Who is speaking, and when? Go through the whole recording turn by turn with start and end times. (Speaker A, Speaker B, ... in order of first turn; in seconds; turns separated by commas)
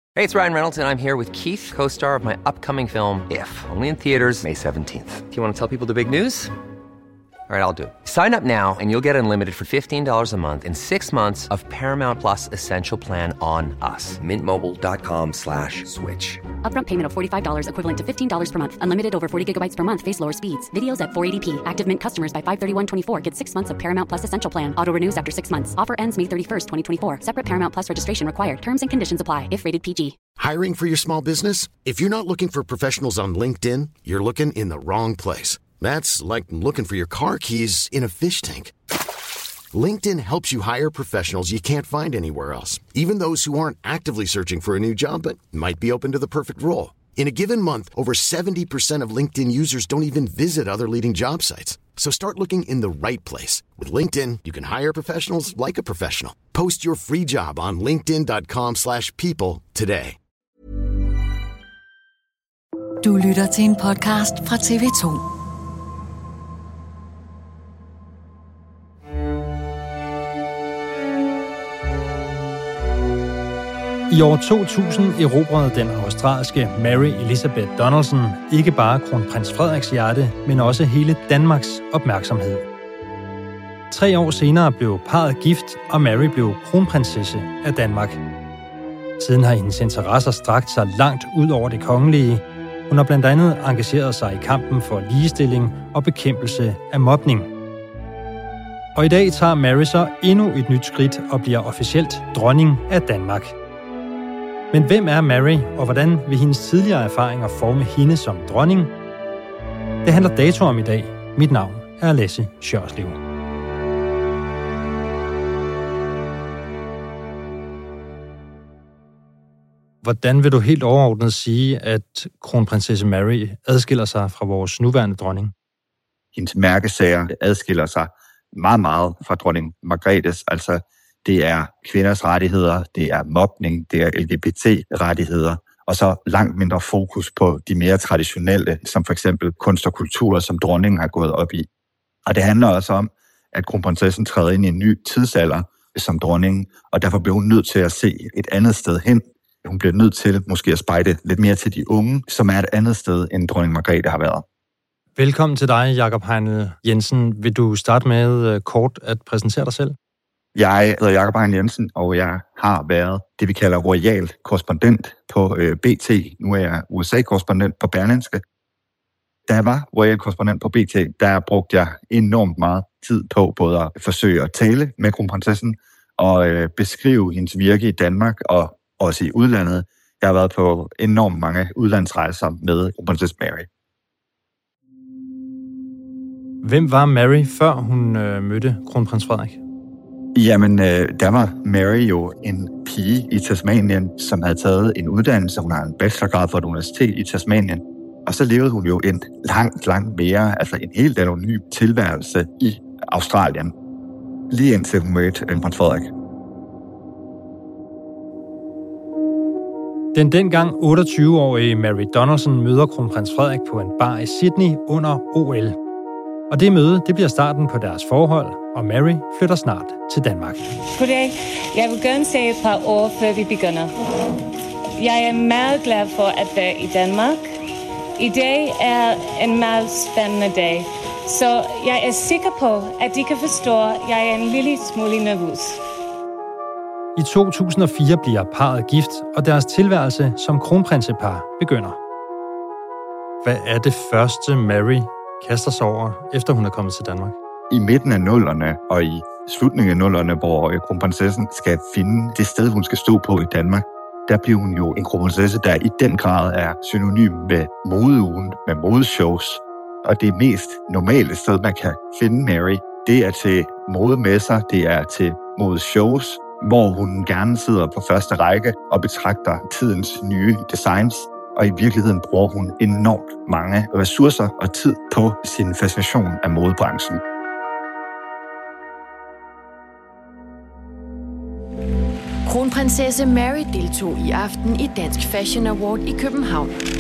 Speaker A: 0.2-6.5, Speaker A: 7.5-16.5, Speaker B: 16.6-30.2, Speaker C: 30.4-38.7, Speaker C: 39.7-60.2, Speaker D: 63.0-65.2, Speaker E: 74.1-82.7, Speaker E: 83.9-88.2, Speaker E: 89.2-97.5, Speaker E: 99.0-103.6, Speaker E: 104.7-108.9, Speaker E: 110.0-113.2, Speaker E: 120.0-125.5, Speaker F: 126.3-141.7, Speaker F: 142.3-154.4, Speaker E: 155.2-160.0, Speaker F: 160.6-168.4, Speaker F: 169.5-183.7, Speaker E: 186.6-189.6, Speaker F: 190.3-203.7, Speaker F: 204.5-206.1, Speaker E: 210.1-215.8, Speaker E: 216.5-220.7, Speaker G: 220.9-223.9, Speaker G: 225.0-227.5, Speaker G: 228.2-235.8, Speaker E: 237.2-242.0, Speaker E: 243.4-247.4, Speaker F: 247.7-277.2, Speaker H: 282.4-286.8